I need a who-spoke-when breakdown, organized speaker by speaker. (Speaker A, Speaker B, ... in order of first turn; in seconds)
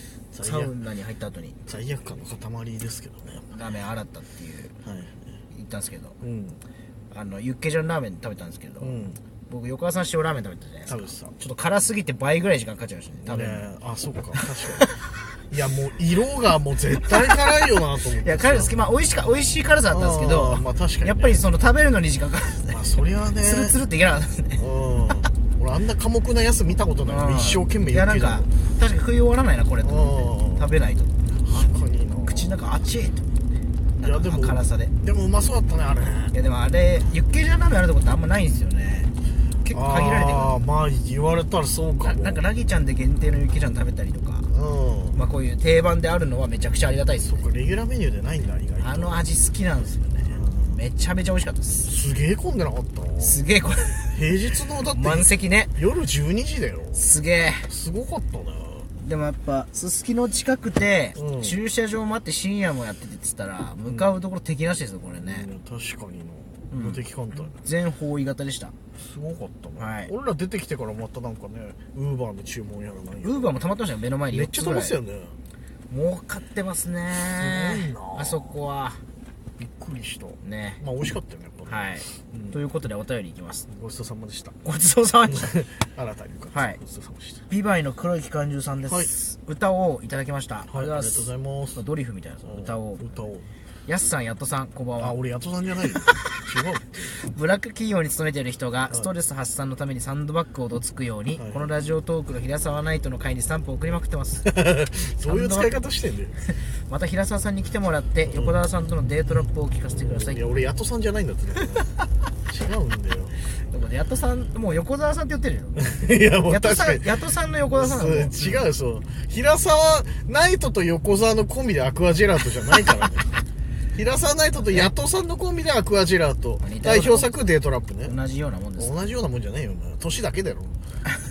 Speaker A: 0.3-0.7, 1.6-3.5, 4.8-5.1, 6.2-6.6, 8.8-9.2, 10.9-11.3, 13.2-14.9, 15.5-18.8, 19.9-21.4, 22.7-23.8, 24.6-28.5, 29.8-30.7, 31.3-32.6, 34.0-36.4, 39.7-42.4, 44.5-45.2, 47.2-49.2, 50.2-50.8, 51.8-53.4, 54.1-57.1, 57.7-58.9, 61.1-61.5, 63.9-64.1, 65.2-67.6, 69.0-73.6, 74.3-75.3, 77.2-78.5, 79.6-82.6, 83.7-84.6, 85.3-87.5, 88.9-89.1, 90.7-91.8, 92.4-93.5, 95.0-97.2, 101.4-101.7, 104.4-106.4, 108.3-108.5, 109.9-111.9, 112.5-113.4, 115.8-117.1, 117.7-123.3, 123.9-128.2, 128.8-130.8
Speaker B: 0.4-1.6, 3.5-4.8, 5.5-6.2, 7.1-8.9, 9.5-13.6, 18.2-22.9, 23.4-24.6, 27.0-33.3, 34.0-34.9, 36.3-39.1, 39.6-40.6, 42.0-44.5, 45.1-47.4, 48.8-51.9, 53.2-54.2, 54.9-55.8, 56.9-57.7, 59.0-65.5, 66.7-68.7, 69.8-70.1, 73.2-75.0, 75.9-79.0, 80.4-80.8, 81.7-83.7, 84.6-85.6, 86.5-86.8, 87.5-93.0, 93.9-95.2, 97.1-104.5, 105.0-105.9, 106.4-110.5, 113.7-118.7, 124.5-124.9, 126.6-127.3, 128.0-129.0